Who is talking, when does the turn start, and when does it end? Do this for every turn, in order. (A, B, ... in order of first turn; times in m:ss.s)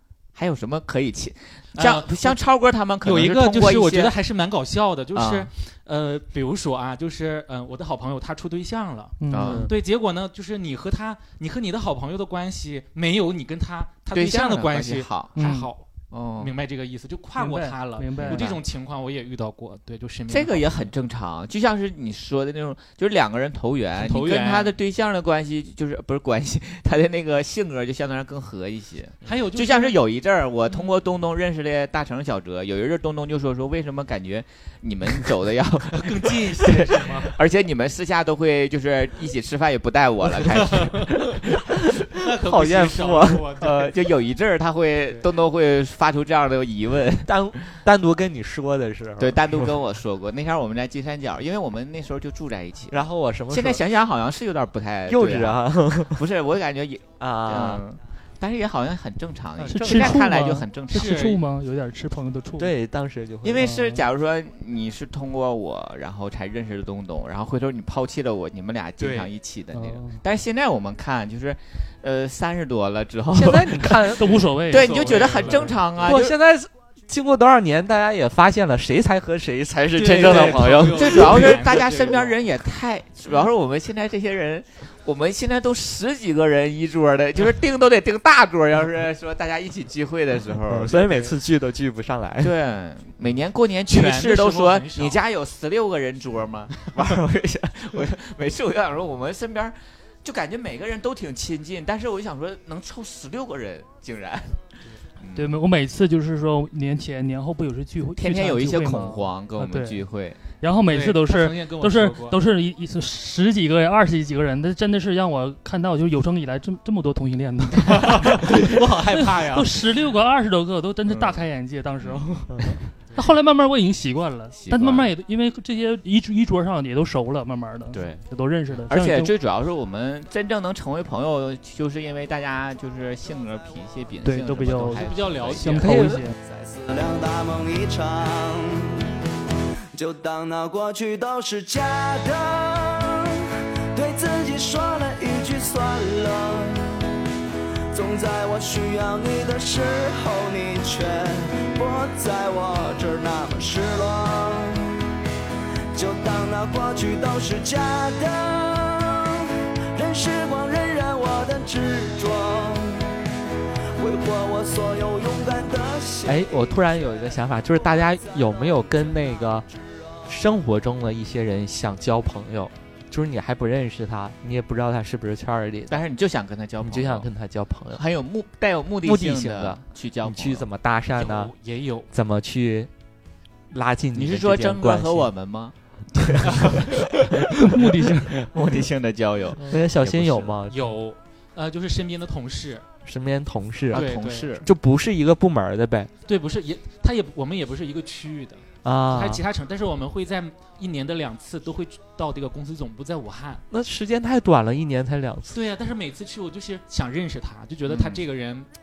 0:00.3-0:04.1 A
0:01.8-0:02.4 B
0:03.0-0:20.9 B
0:05.1-0:05.5 A
0:09.2-0:09.6 C
0:09.3-0:09.7 A
0:09.4-0:09.8 D
0:14.1-0:15.4 A
0:15.3-0:15.7 C
0:16.1-0:16.5 A
0:17.4-0:18.5 C
0:18.2-0:18.6 A
0:20.3-0:41.4 A
0:24.0-0:24.7 B
0:29.2-0:30.0 B
0:35.9-0:37.4 B
0:40.4-0:41.2 B
0:42.1-0:43.9 B
0:42.3-0:43.6 D
0:43.6-0:47.8 A
0:47.2-0:49.7 D
0:49.2-1:01.4 A
0:52.9-0:53.8 D
0:55.1-0:56.2 D
0:57.2-0:57.8 D
0:59.6-1:00.2 B
0:59.7-1:02.7 C
1:00.9-1:01.4 B
1:02.6-1:03.7 D
1:03.4-1:16.3 A
1:03.6-1:04.0 C
1:09.0-1:09.3 B
1:09.7-1:10.2 C
1:13.3-1:14.4 D
1:14.0-1:15.7 C
1:14.7-1:16.2 B
1:16.0-1:21.6 D
1:19.9-1:22.4 B
1:20.1-1:31.3 A
1:30.7-1:32.6 D
1:32.4-1:44.6 A
1:33.9-1:35.2 B
1:45.2-1:45.6 A
1:45.3-1:50.0 C
1:48.2-1:50.4 A
1:50.6-2:09.3 C
1:50.9-1:52.4 B
1:58.0-1:59.7 B
2:01.1-2:01.4 A
2:02.0-2:02.3 A
2:04.6-2:05.1 A
2:07.9-2:08.2 A
2:08.9-2:15.9 A
2:09.0-2:09.3 D
2:14.2-2:16.3 C
2:14.8-2:16.0 B
2:15.8-2:16.2 D
2:16.4-2:19.1 E
2:19.9-2:27.2 E
2:27.9-2:35.0 E
2:35.9-2:43.2 E
2:44.0-2:46.4 E
2:46.2-2:49.6 D
2:50.2-2:56.0 D
2:55.9-2:57.3 A
2:56.8-2:58.0 D
2:57.9-3:00.6 A
2:59.0-3:01.5 D
3:01.2-3:02.1 B
3:02.1-3:02.9 D
3:03.7-3:05.3 D
3:04.1-3:05.7 A
3:06.3-3:06.8 D
3:06.6-3:06.8 A
3:07.6-3:08.3 C
3:08.3-3:10.6 A
3:09.7-3:10.8 D
3:10.6-3:12.9 B
3:13.0-3:16.1 D
3:13.9-3:14.7 A
3:13.9-3:14.6 B
3:16.2-3:23.6 B
3:18.8-3:19.4 D
3:23.7-3:25.6 D
3:25.5-3:28.7 B
3:27.9-3:28.2 A